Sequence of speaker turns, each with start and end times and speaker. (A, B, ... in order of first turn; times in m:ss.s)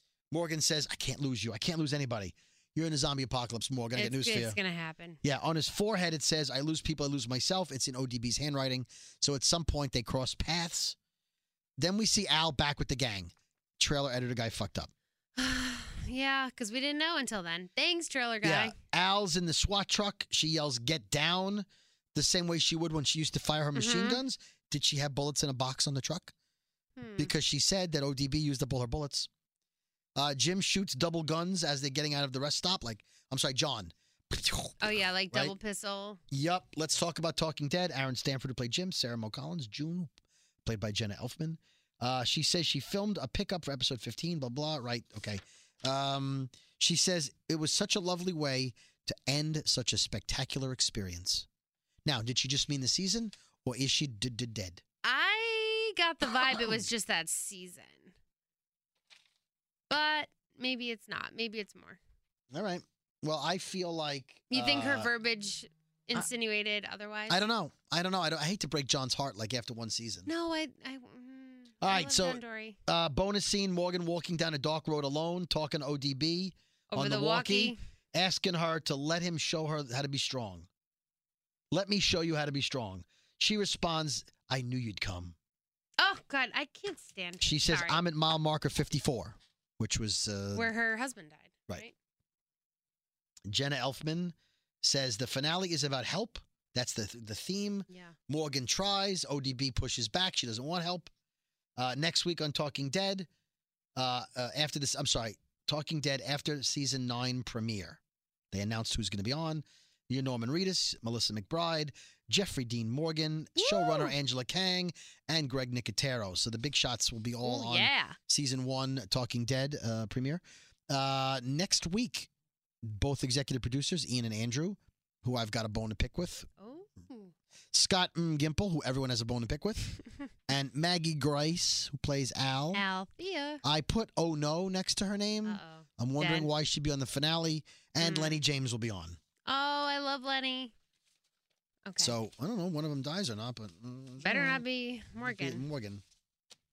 0:00.3-0:04.6 A
0:04.0-0:05.2 B
0:05.2-0:11.0 A
0:11.8-0:14.9 A
0:15.4-0:18.8 B
0:18.4-0:26.3 A
0:23.8-0:24.2 B
0:27.0-0:27.3 B
0:27.2-0:29.3 A
0:30.2-0:35.6 A
0:34.8-0:36.2 B
0:36.3-0:40.1 A
0:40.6-0:51.5 A
0:52.0-0:54.8 A
0:55.0-0:58.1 B
0:56.5-0:56.8 A
0:59.9-1:02.0 B
1:02.5-1:05.1 A
1:04.5-1:07.4 B
1:07.3-1:10.3 A
1:10.3-1:12.8 B
1:11.8-1:20.7 A
1:16.9-1:17.8 B
1:21.7-1:25.4 A
1:26.0-1:28.0 B
1:27.4-1:30.7 A
1:30.5-1:31.9 B
1:33.5-1:41.1 A
1:37.9-1:38.2 B
1:41.8-1:43.3 A
1:44.0-1:48.0 A
1:48.5-2:02.3 A
1:53.6-1:54.1 B
1:57.4-1:58.2 B
2:02.8-2:06.5 A
2:06.6-2:07.3 B
2:07.7-2:10.0 A
2:10.5-2:12.8 A
2:12.7-2:13.6 B
2:13.6-2:19.2 A
2:15.4-2:16.5 B
2:18.0-2:18.4 B
2:19.5-2:20.7 B
2:21.9-2:22.2 B
2:22.0-2:24.6 A
2:24.2-2:25.6 B
2:25.2-2:26.0 A